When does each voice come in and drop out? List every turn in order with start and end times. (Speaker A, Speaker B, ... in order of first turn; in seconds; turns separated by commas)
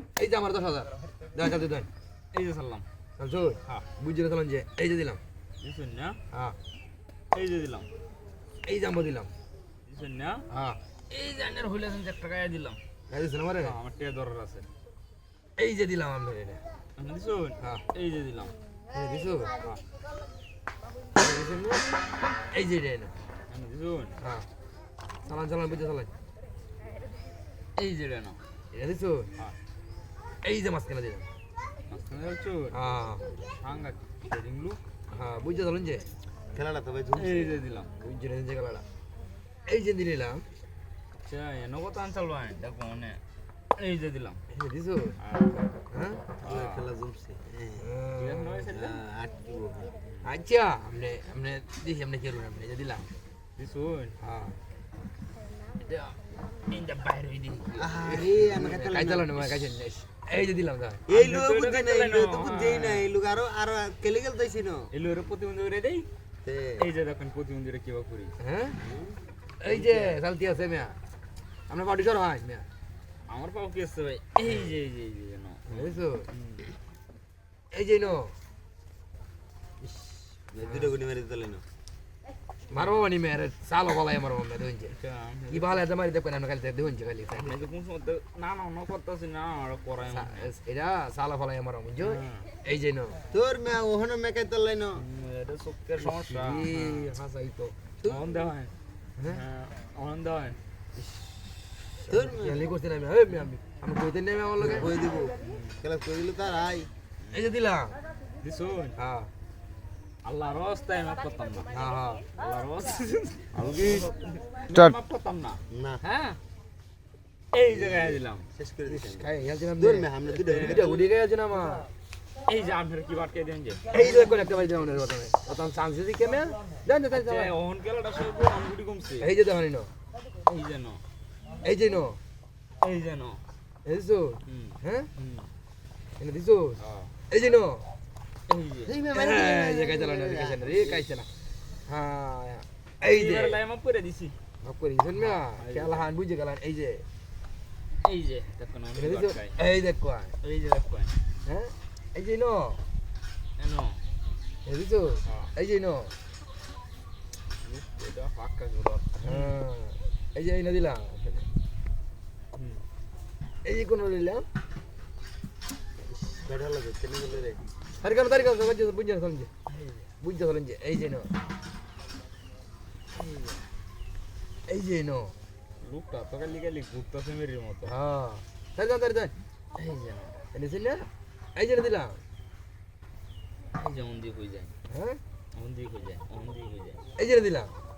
Speaker A: 0.2-1.9, Speaker B: 2.3-2.9, Speaker A: 3.2-5.2, Speaker B: 5.6-6.2, Speaker A: 6.3-6.6, Speaker B: 7.3-7.9, Speaker A: 8.6-9.3, Speaker B: 9.9-10.5, Speaker A: 10.5-10.8, Speaker B: 11.1-12.8, Speaker A: 13.1-13.8, Speaker B: 13.6-14.7, Speaker A: 15.6-16.6, Speaker B: 17.0-18.5, Speaker A: 18.9-19.5, Speaker A: 21.1-21.9, Speaker A: 22.5-23.1, Speaker B: 23.5-24.2, Speaker A: 24.2-24.5, Speaker A: 25.2-26.1, Speaker B: 27.8-28.4, Speaker A: 28.7-29.3, Speaker A: 30.4-31.3, Speaker B: 31.9-32.8, Speaker A: 32.7-33.4, Speaker B: 33.6-34.8, Speaker A: 35.1-36.1, Speaker C: 36.5-37.5, Speaker B: 37.1-37.9, Speaker A: 38.0-38.9, Speaker A: 39.7-40.5, Speaker B: 41.2-43.2, Speaker B: 43.8-44.4, Speaker A: 44.5-45.2, Speaker B: 45.2-45.6, Speaker A: 45.9-46.2, Speaker C: 46.4-47.9, Speaker B: 46.5-46.9, Speaker A: 47.8-48.7, Speaker B: 48.2-49.0, Speaker C: 48.7-50.0, Speaker A: 50.2-53.1, Speaker B: 53.6-54.2, Speaker A: 54.2-54.6, Speaker B: 55.9-56.1, Speaker B: 56.7-57.9, Speaker C: 57.8-59.5, Speaker A: 57.9-61.0, Speaker C: 61.1-64.9, Speaker B: 61.1-63.1, Speaker B: 64.9-66.1, Speaker C: 66.4-66.9, Speaker B: 66.8-68.3, Speaker A: 68.4-68.8, Speaker C: 68.8-69.2, Speaker A: 69.6-71.0, Speaker B: 69.7-70.2, Speaker A: 71.7-72.7, Speaker B: 73.3-76.7, Speaker A: 75.7-76.3, Speaker A: 77.7-78.3, Speaker C: 79.8-81.6, Speaker A: 80.6-80.9, Speaker A: 82.7-85.0, Speaker B: 82.7-83.1, Speaker B: 84.9-85.8, Speaker A: 85.5-87.7, Speaker B: 87.4-90.5, Speaker A: 90.1-93.2, Speaker B: 92.0-92.5, Speaker C: 93.3-95.0, Speaker B: 95.0-97.1, Speaker A: 96.0-98.0, Speaker B: 98.0-100.6, Speaker A: 99.2-99.4, Speaker C: 102.0-102.7, Speaker A: 102.1-104.9, Speaker C: 104.6-106.9, Speaker B: 105.4-105.8, Speaker A: 107.3-108.0, Speaker B: 108.4-109.0, Speaker A: 109.0-109.3, Speaker B: 110.2-111.7, Speaker A: 111.7-112.2, Speaker B: 112.3-116.4, Speaker C: 113.5-114.1, Speaker C: 115.7-116.0, Speaker B: 117.5-118.5, Speaker C: 117.7-120.9, Speaker A: 118.9-121.9, Speaker B: 120.3-121.1, Speaker B: 122.5-123.8, Speaker A: 123.9-127.5, Speaker B: 127.1-129.3, Speaker A: 129.2-129.9, Speaker B: 130.4-131.0, Speaker A: 131.6-132.2, Speaker B: 132.8-133.4, Speaker A: 133.8-135.1, Speaker B: 134.5-135.5, Speaker A: 136.2-137.9, Speaker B: 136.8-137.1, Speaker B: 138.5-138.9, Speaker C: 138.9-141.1, Speaker A: 139.1-141.3, Speaker A: 141.8-143.6, Speaker B: 143.0-144.4, Speaker A: 144.6-147.1, Speaker B: 145.2-146.1, Speaker B: 148.0-149.6, Speaker A: 149.0-150.3, Speaker B: 150.4-151.2, Speaker A: 151.4-152.8, Speaker B: 153.6-154.0, Speaker A: 154.7-156.2, Speaker B: 155.2-155.5, Speaker B: 157.6-159.6, Speaker A: 159.2-161.5, Speaker B: 162.6-162.8, Speaker A: 163.6-164.5, Speaker C: 166.1-167.6, Speaker A: 168.0-169.5, Speaker B: 169.7-170.1, Speaker A: 170.2-171.3, Speaker B: 173.1-173.7, Speaker A: 174.7-175.4, Speaker B: 175.8-177.9, Speaker A: 177.9-179.3, Speaker B: 179.8-180.4, Speaker A: 180.5-182.2, Speaker B: 183.8-184.7, Speaker A: 184.9-185.2, Speaker B: 185.5-187.0, Speaker A: 187.2-187.7